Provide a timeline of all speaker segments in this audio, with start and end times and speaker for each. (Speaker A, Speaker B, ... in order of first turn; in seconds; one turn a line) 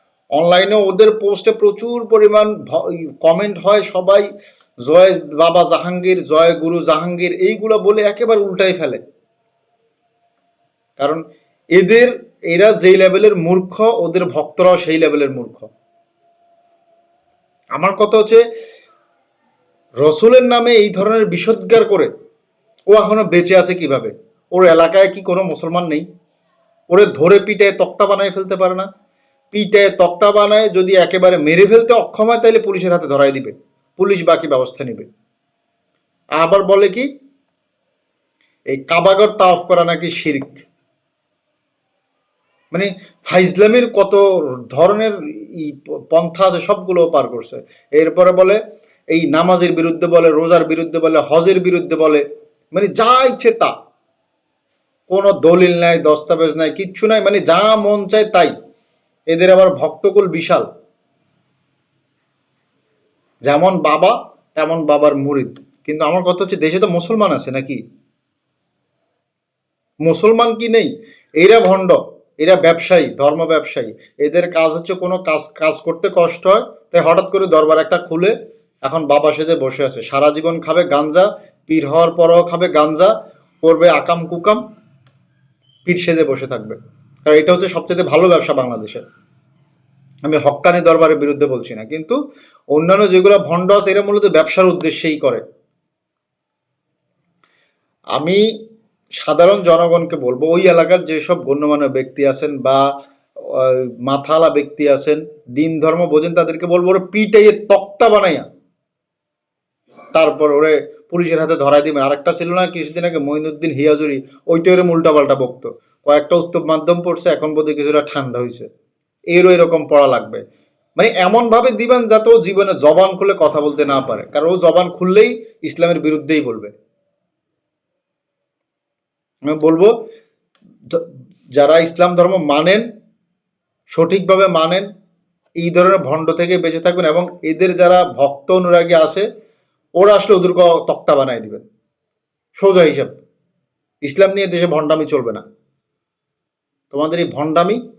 Speaker A: 0.4-4.2
Speaker A: 4.9-9.0
Speaker A: 11.7-15.7
Speaker A: 17.8-18.4
Speaker A: 20.0-22.1
Speaker A: 22.9-26.1
Speaker A: 26.9-28.9
Speaker A: 29.5-35.1
Speaker A: 36.4-37.1
Speaker A: 38.7-40.6
Speaker A: 42.7-48.6
Speaker A: 49.1-53.7
Speaker A: 55.1-58.5
Speaker A: 59.3-60.6
Speaker A: 63.5-67.8
Speaker A: 70.0-84.6
Speaker A: 85.8-89.0
Speaker A: 90.2-92.2
Speaker A: 92.7-95.4
Speaker A: 98.2-98.4
Speaker A: 99.2-102.8
Speaker A: 103.4-108.4
Speaker A: 110.1-118.7
Speaker A: 119.3-120.4
Speaker A: 121.0-126.7
Speaker A: 129.5-129.9
Speaker A: 130.9-132.8
Speaker A: 133.9-134.8
Speaker A: 135.6-139.2
Speaker A: 140.0-141.6
Speaker A: 142.6-143.2
Speaker A: 144.0-145.4
Speaker A: 146.9-147.8